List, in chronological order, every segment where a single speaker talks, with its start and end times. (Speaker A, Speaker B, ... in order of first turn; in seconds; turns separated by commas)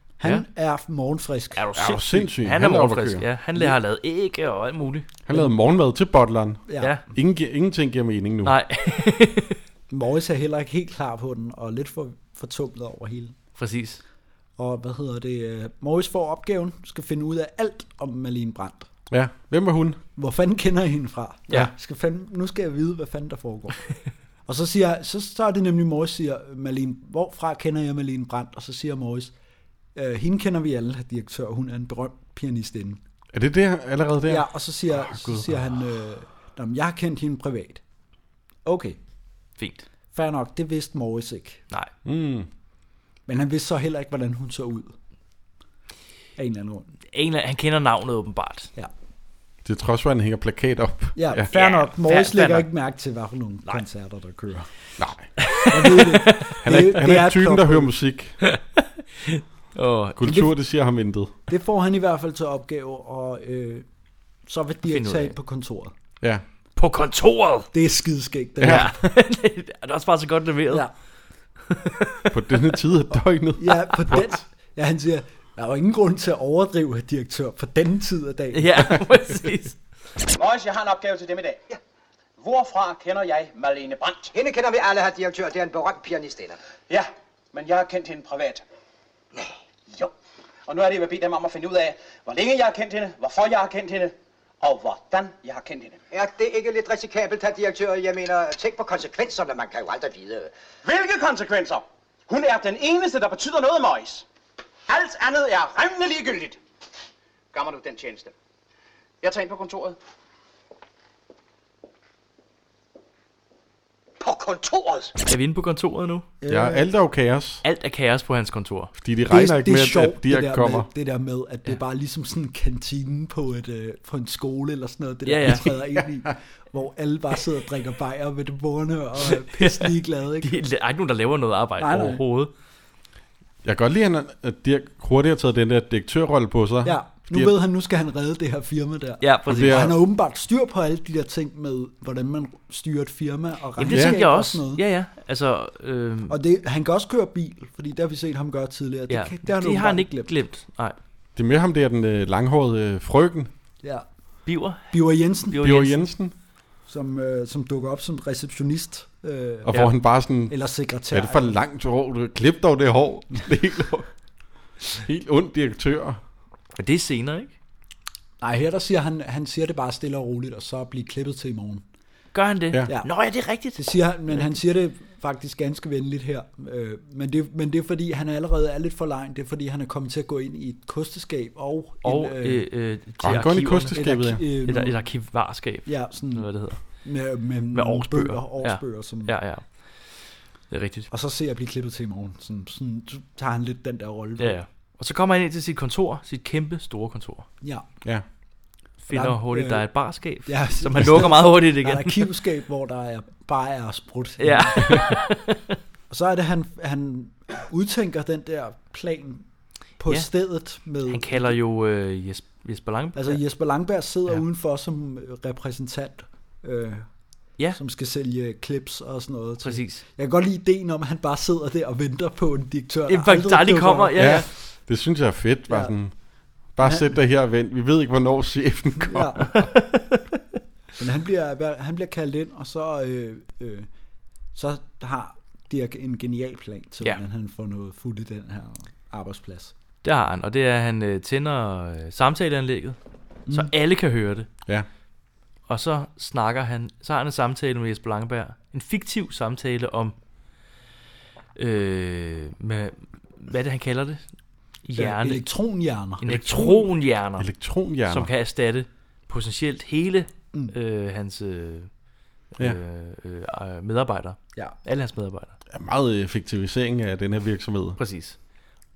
Speaker A: 0.2-1.6, Speaker B: 1.6-5.1, Speaker C: 1.8-3.2, Speaker C: 5.2-8.5, Speaker A: 6.7-6.9, Speaker B: 8.4-9.6, Speaker A: 9.9-13.3, Speaker B: 13.6-14.0, Speaker A: 14.6-18.9, Speaker C: 19.1-20.0, Speaker A: 20.2-23.9, Speaker A: 24.4-29.3, Speaker A: 29.9-33.0, Speaker C: 33.3-34.5, Speaker A: 34.2-37.8, Speaker C: 35.1-35.5, Speaker A: 38.6-39.0, Speaker B: 39.6-39.8, Speaker A: 40.1-41.6, Speaker C: 42.0-42.5, Speaker A: 43.3-44.9, Speaker A: 46.4-46.9, Speaker B: 47.1-48.7, Speaker C: 49.6-51.5, Speaker A: 51.1-54.7, Speaker B: 51.5-52.7, Speaker C: 55.0-55.3, Speaker B: 55.4-56.6, Speaker A: 55.7-57.9, Speaker C: 56.6-58.4, Speaker B: 58.4-60.2, Speaker C: 60.2-61.3, Speaker A: 60.2-60.5, Speaker A: 61.5-63.8, Speaker A: 64.5-65.9, Speaker B: 64.8-65.3, Speaker B: 66.8-67.7, Speaker A: 67.7-68.9, Speaker C: 68.6-68.9, Speaker B: 68.6-70.8, Speaker B: 71.7-72.2, Speaker C: 72.3-74.3, Speaker A: 73.6-79.0, Speaker B: 78.5-79.8, Speaker D: 80.4-81.6, Speaker D: 82.4-84.3, Speaker E: 84.3-86.6, Speaker D: 86.9-88.6, Speaker D: 90.7-96.0, Speaker E: 96.1-100.5, Speaker D: 100.8-104.2, Speaker D: 104.9-106.5, Speaker D: 107.5-108.3, Speaker D: 109.2-109.9, Speaker E: 114.2-115.1, Speaker B: 115.2-116.2, Speaker A: 116.4-116.8, Speaker C: 116.5-117.6, Speaker B: 117.6-118.9, Speaker C: 119.0-120.9, Speaker A: 119.3-130.6, Speaker B: 125.2-125.8, Speaker B: 129.3-132.5, Speaker A: 131.8-132.2, Speaker C: 133.6-137.5, Speaker A: 136.8-144.8, Speaker B: 139.2-139.9, Speaker C: 139.5-140.0, Speaker B: 143.8-146.4, Speaker C: 143.9-144.2, Speaker A: 146.3-150.3, Speaker B: 149.1-150.9, Speaker C: 151.3-153.5, Speaker B: 154.4-156.0, Speaker A: 154.9-155.7, Speaker C: 155.6-156.3, Speaker A: 156.9-159.7, Speaker C: 159.7-160.6, Speaker A: 160.5-161.5, Speaker C: 161.1-164.1, Speaker C: 165.0-166.2, Speaker B: 166.8-167.5, Speaker A: 168.4-171.8, Speaker B: 172.3-174.5, Speaker A: 173.7-182.7, Speaker B: 182.0-187.0, Speaker C: 183.2-184.4, Speaker A: 183.9-185.0, Speaker A: 185.8-189.3, Speaker B: 187.7-191.1, Speaker A: 191.1-194.6, Speaker B: 194.4-197.5, Speaker B: 199.0-202.2, Speaker A: 199.1-205.2, Speaker B: 204.4-205.7, Speaker A: 206.1-209.4, Speaker A: 210.0-211.5, Speaker B: 211.1-213.4, Speaker A: 213.1-217.1, Speaker A: 217.7-224.4, Speaker B: 219.6-220.0, Speaker B: 223.1-224.5, Speaker C: 224.2-226.2, Speaker A: 225.7-225.9, Speaker C: 226.7-229.6, Speaker A: 226.8-227.1, Speaker A: 229.0-229.6, Speaker B: 229.6-230.2, Speaker A: 231.0-233.9, Speaker A: 234.5-239.7, Speaker B: 240.0-243.0, Speaker B: 243.5-244.5, Speaker B: 245.7-250.1, Speaker B: 251.6-254.2, Speaker B: 254.8-255.4, Speaker A: 255.0-256.9, Speaker B: 256.2-257.5, Speaker C: 257.4-258.3, Speaker B: 258.1-261.9, Speaker B: 262.5-265.6, Speaker C: 265.7-268.0, Speaker B: 268.0-268.4